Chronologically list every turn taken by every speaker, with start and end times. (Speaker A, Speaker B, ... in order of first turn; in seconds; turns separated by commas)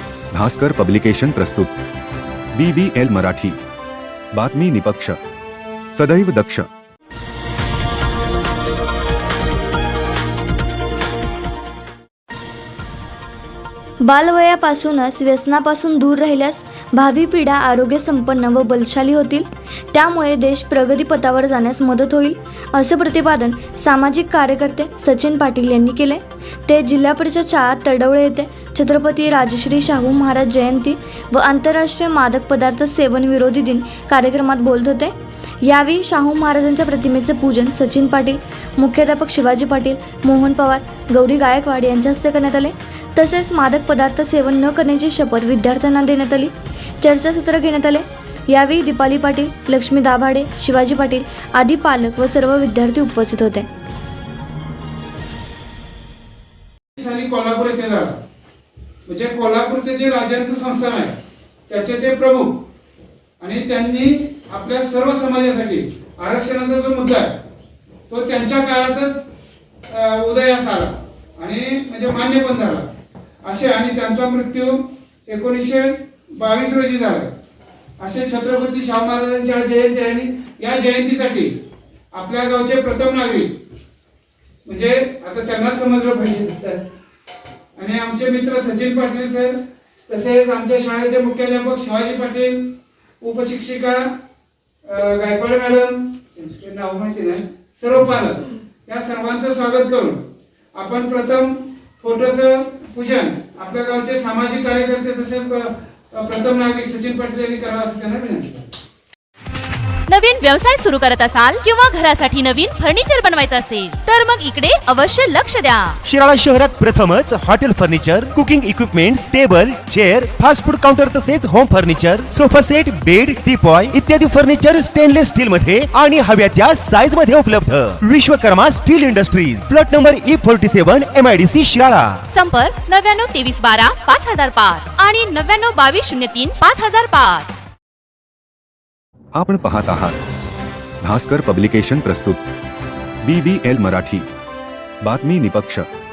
Speaker A: 0.3-1.8, Speaker A: 2.5-3.6, Speaker A: 4.3-5.2, Speaker A: 5.9-6.7, Speaker B: 14.0-53.7, Speaker C: 57.0-58.2, Speaker C: 59.0-61.2, Speaker C: 61.7-62.5, Speaker C: 63.4-67.3, Speaker C: 68.1-69.2, Speaker C: 69.9-72.9, Speaker C: 73.4-77.3, Speaker C: 78.0-81.5, Speaker C: 82.1-83.5, Speaker C: 84.6-86.8, Speaker C: 87.8-92.6, Speaker C: 93.2-94.1, Speaker C: 94.8-100.2, Speaker C: 100.7-108.7, Speaker D: 110.1-116.0, Speaker E: 116.0-132.2, Speaker D: 132.3-137.6, Speaker A: 139.3-140.2, Speaker A: 141.0-142.4, Speaker A: 143.2-144.3, Speaker A: 145.0-145.9